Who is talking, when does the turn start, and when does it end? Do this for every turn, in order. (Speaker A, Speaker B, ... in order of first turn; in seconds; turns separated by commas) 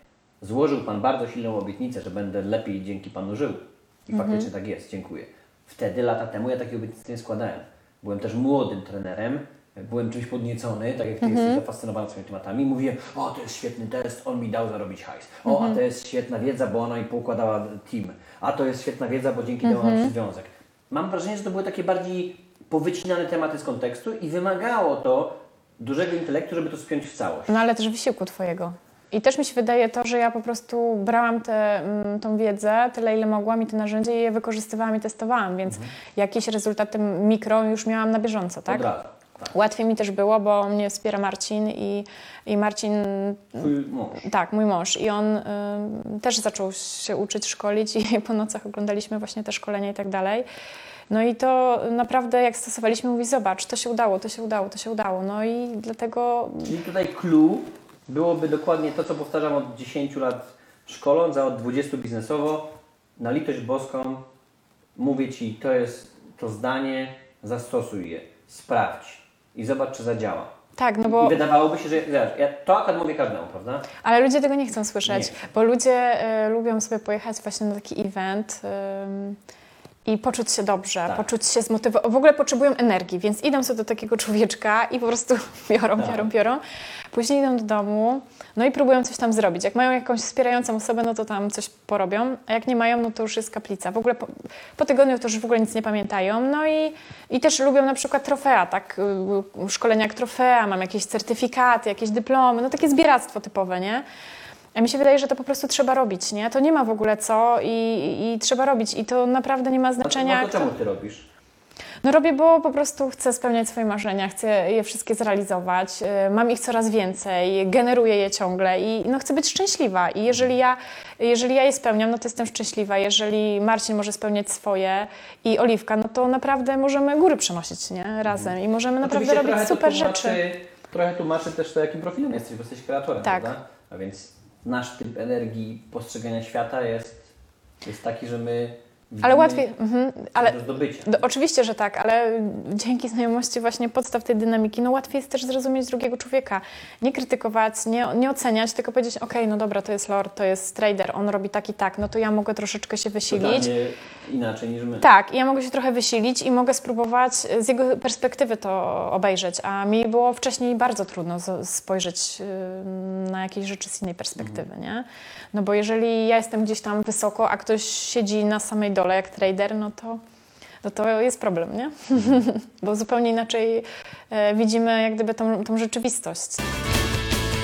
Speaker A: 0.4-27.6, Speaker B: 4.1-4.5, Speaker B: 11.2-11.6, Speaker B: 15.5-15.8, Speaker B: 19.6-20.1, Speaker B: 27.5-38.9, Speaker A: 35.7-35.9, Speaker A: 38.7-39.5, Speaker B: 39.5-50.5, Speaker A: 43.6-44.2, Speaker B: 51.1-56.7, Speaker A: 56.6-64.3, Speaker A: 65.0-70.5, Speaker B: 70.8-71.4, Speaker A: 71.0-73.9, Speaker B: 74.0-79.4, Speaker A: 75.0-75.4, Speaker B: 80.0-104.0, Speaker A: 86.0-86.3, Speaker B: 104.8-110.7, Speaker A: 110.0-111.3, Speaker B: 112.0-130.4, Speaker A: 128.3-137.3, Speaker B: 133.2-133.5, Speaker A: 137.8-139.7, Speaker B: 139.2-153.7, Speaker A: 140.3-141.2, Speaker A: 153.3-155.1, Speaker B: 155.0-170.2, Speaker B: 170.8-176.7